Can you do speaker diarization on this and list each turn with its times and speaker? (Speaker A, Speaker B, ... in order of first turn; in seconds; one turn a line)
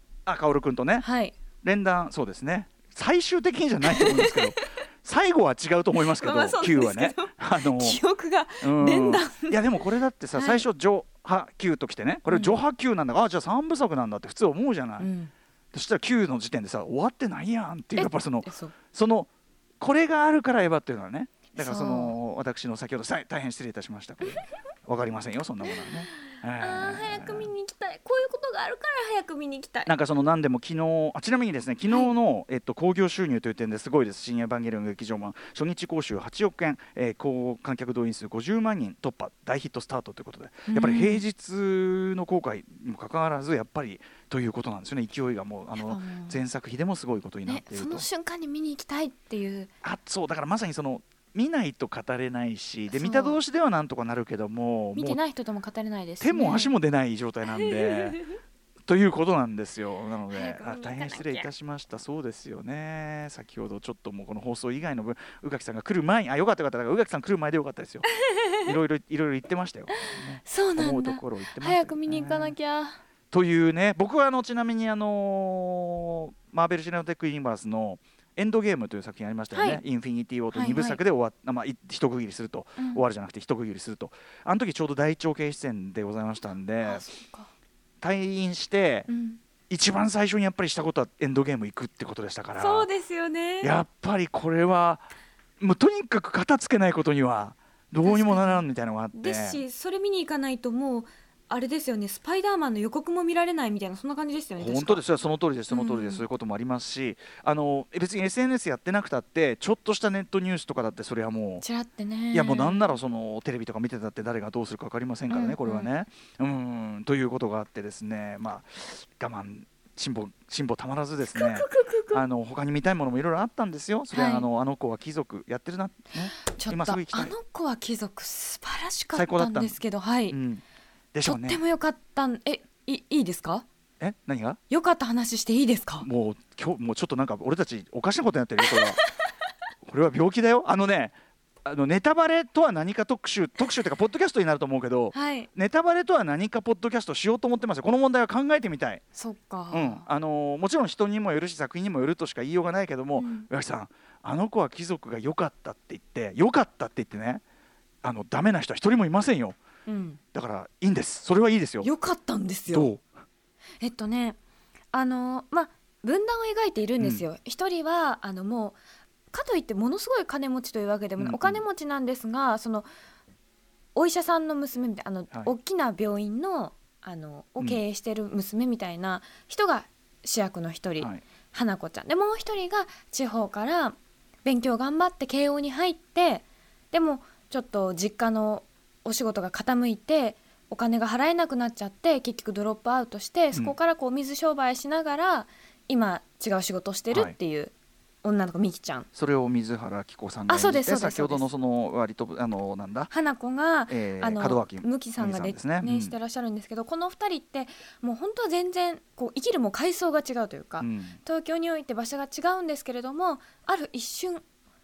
Speaker A: 0.3-1.1
Speaker B: 1.0-1.4
Speaker A: 1.6-8.0
Speaker B: 3.9-4.6
Speaker B: 6.0-9.8
Speaker A: 8.6-15.1
Speaker B: 10.3-10.7
Speaker B: 12.3-12.6
Speaker B: 15.0-15.3
Speaker A: 15.7-19.3
Speaker B: 17.9-18.8
Speaker A: 19.8-27.5
Speaker B: 21.6-22.1
Speaker B: 26.6-29.9
Speaker A: 29.9-48.1
Speaker B: 40.7-41.2
Speaker B: 45.8-46.4
Speaker B: 47.5-49.7
Speaker A: 49.8-55.2
Speaker B: 52.9-53.4
Speaker B: 55.0-56.8
Speaker A: 56.2-58.2
Speaker B: 57.5-58.2
Speaker A: 58.9-68.1
Speaker B: 60.3-61.5
Speaker B: 68.2-68.6
Speaker A: 68.6-72.6
Speaker B: 70.0-73.0
Speaker A: 73.3-87.1
Speaker B: 79.5-79.8
Speaker B: 80.5-81.0
Speaker B: 82.8-83.0
Speaker B: 86.8-87.5
Speaker A: 88.0-89.1
Speaker B: 89.1-89.4
Speaker A: 89.7-92.9
Speaker B: 92.5-93.8
Speaker A: 93.6-95.0
Speaker A: 95.6-99.6
Speaker B: 98.0-105.0
Speaker A: 104.6-111.6
Speaker B: 105.7-106.2
Speaker B: 111.6-113.0
Speaker A: 112.3-127.3
Speaker B: 115.3-115.9
Speaker B: 121.2-122.2
Speaker B: 124.1-124.5
Speaker B: 126.2-130.4
Speaker A: 129.1-129.8
Speaker A: 130.3-130.6
Speaker A: 131.1-131.6
Speaker B: 131.2-133.7
Speaker A: 134.0-134.6
Speaker B: 134.7-136.1
Speaker A: 136.0-139.0
Speaker B: 138.6-139.1
Speaker A: 139.8-141.1
Speaker A: 141.7-149.0
Speaker B: 145.1-145.5
Speaker B: 149.2-150.1
Speaker A: 149.7-157.4
Speaker B: 153.2-153.5
Speaker A: 158.0-159.6
Speaker B: 159.9-160.2
Speaker A: 160.3-161.9
Speaker B: 161.8-162.9
Speaker A: 162.7-163.0
Speaker B: 163.8-164.4
Speaker B: 164.9-168.8
Speaker A: 167.0-167.2
Speaker B: 169.3-172.9
Speaker A: 171.2-171.6
Speaker B: 173.9-199.1
Speaker A: 199.2-203.1
Speaker B: 200.5-201.5
Speaker B: 203.1-214.4
Speaker A: 203.9-206.2
Speaker A: 210.8-211.2